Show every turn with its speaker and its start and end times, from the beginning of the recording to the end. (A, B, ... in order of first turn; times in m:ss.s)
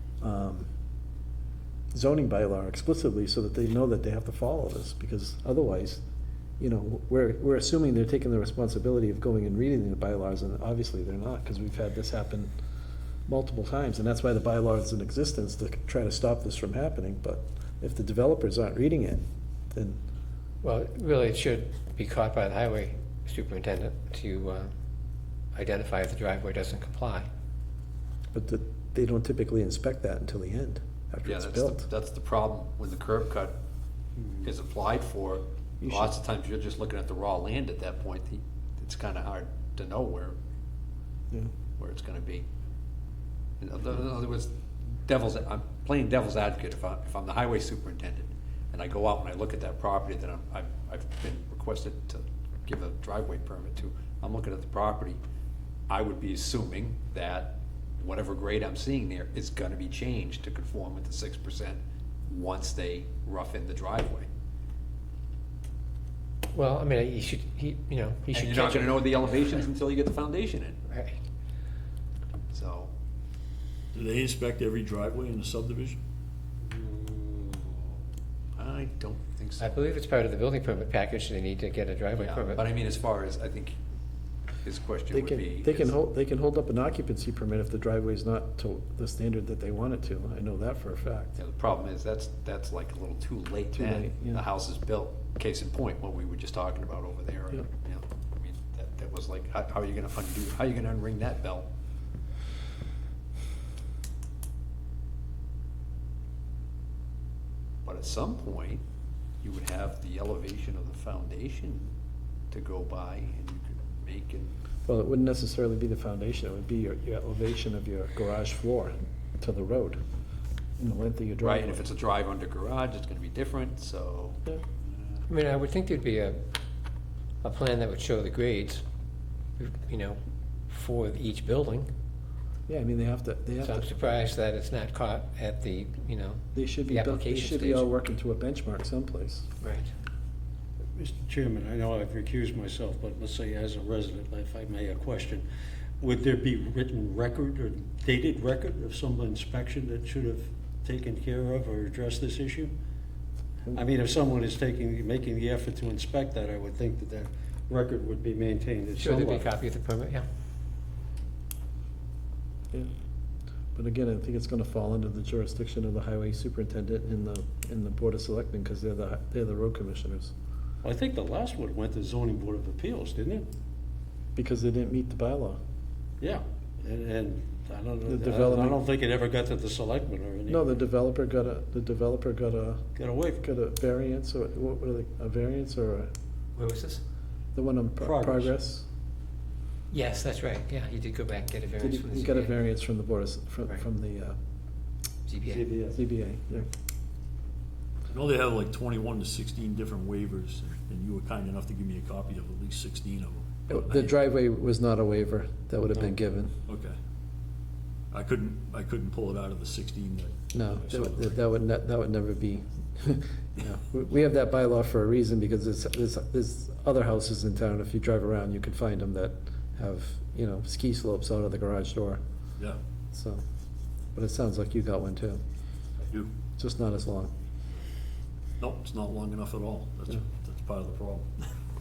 0:00.2-0:00.7 A
0:01.9-0:06.0 A
0:06.6-0:12.5 A
0:13.3-0:20.0 A
0:20.6-0:24.7 B
0:25.5-0:27.3 B
0:28.3-0:31.9 A
0:31.2-0:33.6 C
0:34.4-0:40.4 C
0:35.8-0:36.1 A
0:41.8-0:42.4 C
0:43.6-0:44.5 C
0:45.0-0:55.2 C
0:55.9-1:04.3 C
1:06.5-1:09.6 B
1:08.3-1:10.8 C
1:10.9-1:11.2 B
1:12.5-1:12.9 C
1:13.9-1:16.0 D
1:16.6-1:17.9 C
1:18.6-1:19.8 C
1:19.6-1:22.6 B
1:22.2-1:23.8 C
1:24.6-1:25.9 C
1:25.1-1:31.4 A
1:31.4-1:41.7 C
1:33.7-1:34.4 A
1:47.8-1:48.8 C
1:49.4-1:51.9 C
1:52.5-1:54.5 C
1:54.8-2:00.0 A
2:00.8-2:01.8 A
2:01.4-2:05.2 C
2:05.3-2:06.4 B
2:07.4-2:08.8 B
2:09.6-2:10.2 B
2:10.7-2:11.9 B
2:12.7-2:13.9 A
2:13.6-2:17.9 B
2:16.5-2:19.5 A
2:19.6-2:19.9 B
2:21.0-2:25.4 E
2:26.0-2:32.7 E
2:33.7-2:39.4 E
2:39.0-2:40.2 B
2:43.7-2:50.3 A
2:50.8-2:53.4 E
2:54.4-2:55.6 A
2:56.9-3:00.6 E
2:58.1-2:58.8 A
3:00.5-3:02.8 A
3:03.0-3:03.4 E
3:03.4-3:06.1 A
3:06.6-3:07.0 C
3:07.5-3:08.8 A
3:08.0-3:08.5 E
3:09.9-3:12.5 B
3:11.8-3:14.4 A
3:15.3-3:15.6 B
3:15.5-3:15.9 E
3:15.9-3:16.7 A
3:18.1-3:24.1 D
3:23.7-3:26.5 A
3:26.7-3:27.0 D
3:28.1-3:31.4 D
3:30.5-3:42.2 A
3:43.1-3:43.4 A
3:44.1-3:45.4 A
3:46.6-3:47.3 A
3:48.6-3:51.4 D